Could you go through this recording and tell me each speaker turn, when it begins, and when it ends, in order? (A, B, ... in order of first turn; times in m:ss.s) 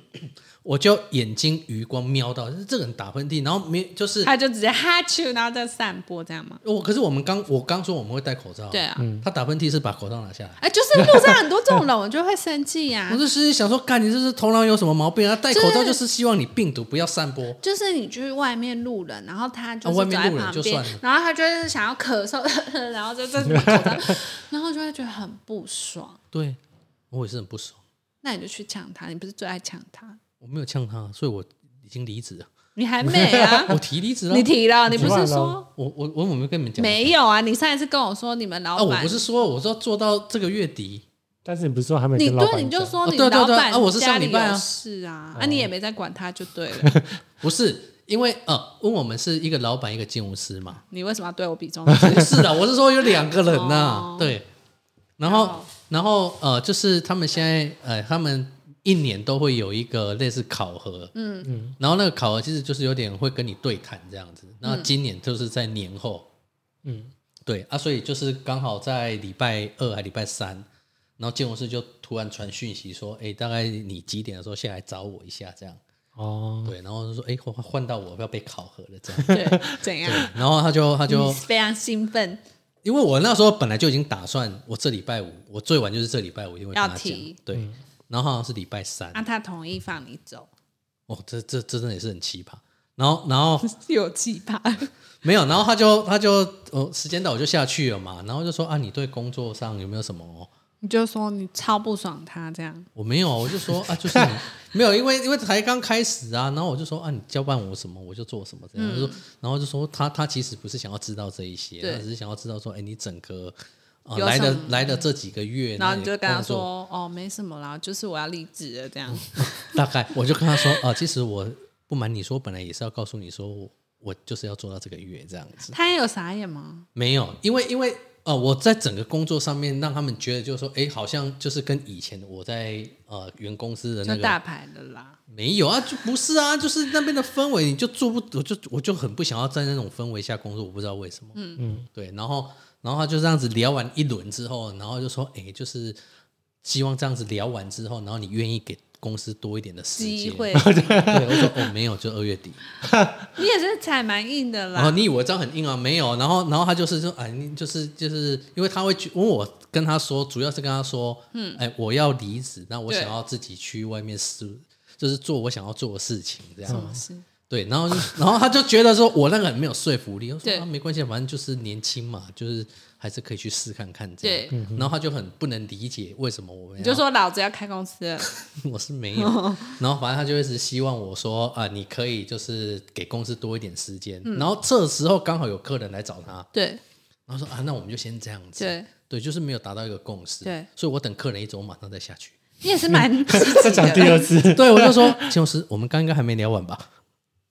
0:00.1-0:04.3 A
0:04.2-0:06.6 B
0:06.6-0:10.6 A
0:08.7-0:09.1 B
0:09.0-0:09.2 C
0:10.6-0:13.2 B
0:11.0-0:11.3 C
0:13.1-0:17.6 A
0:15.5-0:16.0 B
0:17.6-0:26.2 B
0:19.8-0:21.0 A
0:23.4-0:24.2 C
0:26.3-0:26.6 A
0:27.1-0:27.8 A
0:28.2-0:30.2 B
0:30.4-0:32.5 A
0:32.8-0:33.8 B
0:33.2-0:37.1 A
0:33.4-0:33.7 C
0:34.3-0:35.7 B
0:34.9-0:35.6 C
0:36.8-0:39.2 B
0:38.8-0:41.0 A
0:41.4-0:43.0 C
0:42.2-0:46.9 B
0:43.0-0:44.6 A
0:45.3-0:45.7 C
0:46.8-0:47.2 C
0:47.4-0:50.8 A
0:50.9-0:52.6 B
0:52.0-0:54.5 A
0:53.3-0:54.4 B
0:55.2-1:01.1 A
0:55.2-0:55.7 B
1:01.1-1:01.5 B
1:01.4-1:01.8 C
1:01.8-1:06.3 A
1:04.6-1:04.9 B
1:06.8-1:07.1 C
1:07.4-1:10.6 A
1:11.2-1:15.8 A
1:16.2-1:16.7 C
1:16.6-1:21.4 A
1:19.3-1:19.6 C
1:19.3-1:20.4 B
1:21.1-1:22.4 B
1:22.8-1:29.2 A
1:26.7-1:27.4 B
1:29.1-1:30.5 B
1:31.1-1:33.7 A
1:33.6-1:34.9 B
1:35.2-1:40.5 A
1:40.8-1:42.9 B
1:42.9-1:56.7 A
1:48.8-1:49.2 B
1:54.2-1:55.0 B
1:55.8-1:59.8 B
1:59.1-2:05.7 A
2:00.5-2:00.8 B
2:05.7-2:06.9 B
2:06.9-2:14.4 A
2:14.0-2:15.2 B
2:15.3-2:21.4 A
2:21.3-2:21.6 B
2:21.6-2:21.8 C
2:21.9-2:26.0 A
2:26.6-2:32.6 A
2:30.0-2:31.2 B
2:30.6-2:31.7 C
2:32.8-2:33.3 C
2:33.4-2:35.0 B
2:34.7-2:46.9 A
2:41.3-2:41.6 B
2:42.9-2:43.1 B
2:46.7-2:47.0 C
2:46.7-2:47.2 B
2:47.5-2:57.0 A
2:54.2-2:54.6 B
2:54.5-2:54.9 C
2:56.8-2:58.3 B
2:58.5-3:06.5 A
2:59.2-2:59.8 B
3:04.2-3:04.5 B
3:06.5-3:06.8 B
3:07.3-3:12.4 A
3:08.6-3:08.9 B
3:12.6-3:14.3 B
3:12.9-3:15.3 C
3:14.4-3:16.9 A